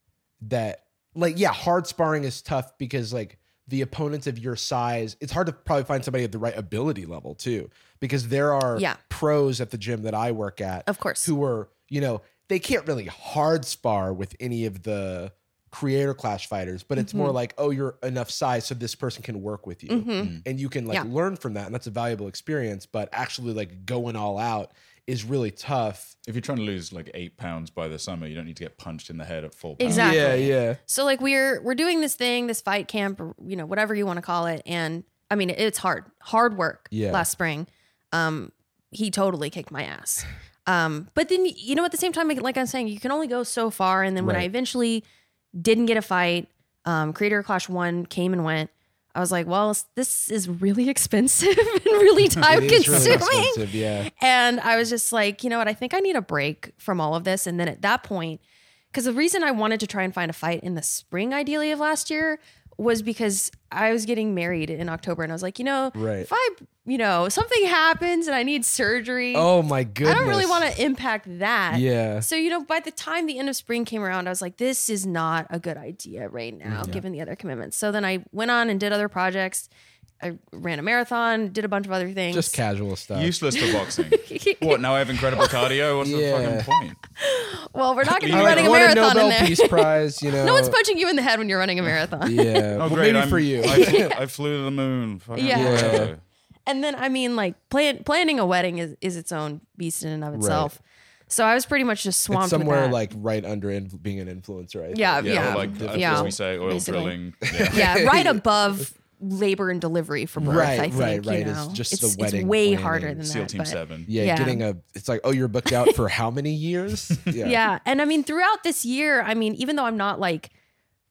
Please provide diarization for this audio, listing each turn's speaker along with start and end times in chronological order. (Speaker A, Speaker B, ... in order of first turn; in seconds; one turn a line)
Speaker A: 0.4-26.1
Speaker B: 10.9-11.3
Speaker B: 17.0-17.3
Speaker B: 19.9-20.4
Speaker C: 26.2-30.5
Speaker B: 29.8-58.4
Speaker A: 29.8-30.8
Speaker A: 36.9-37.2
Speaker A: 44.2-44.5
Speaker A: 52.5-54.1
Speaker C: 52.9-53.2
Speaker B: 58.9-69.5
Speaker A: 65.9-66.3
Speaker A: 69.3-70.7
Speaker B: 70.0-79.7
Speaker A: 71.7-72.2
Speaker A: 76.7-77.0
Speaker B: 80.2-82.6
Speaker A: 82.3-83.3
Speaker C: 83.1-87.0
Speaker B: 83.5-85.7
Speaker A: 86.0-86.7
Speaker B: 87.2-92.7
Speaker C: 88.0-88.9
Speaker A: 88.3-90.8
Speaker A: 92.2-94.1
Speaker C: 92.8-96.2
Speaker B: 93.6-94.1
Speaker B: 95.3-96.1
Speaker A: 95.5-96.1
Speaker B: 96.7-103.0
Speaker A: 100.3-100.7
Speaker A: 102.3-106.3
Speaker B: 104.9-107.1
Speaker C: 105.2-108.0
Speaker A: 107.5-108.4
Speaker B: 107.7-114.6
Speaker A: 110.4-113.2
Speaker C: 113.2-114.1
Speaker A: 114.1-117.6
Speaker B: 117.4-120.5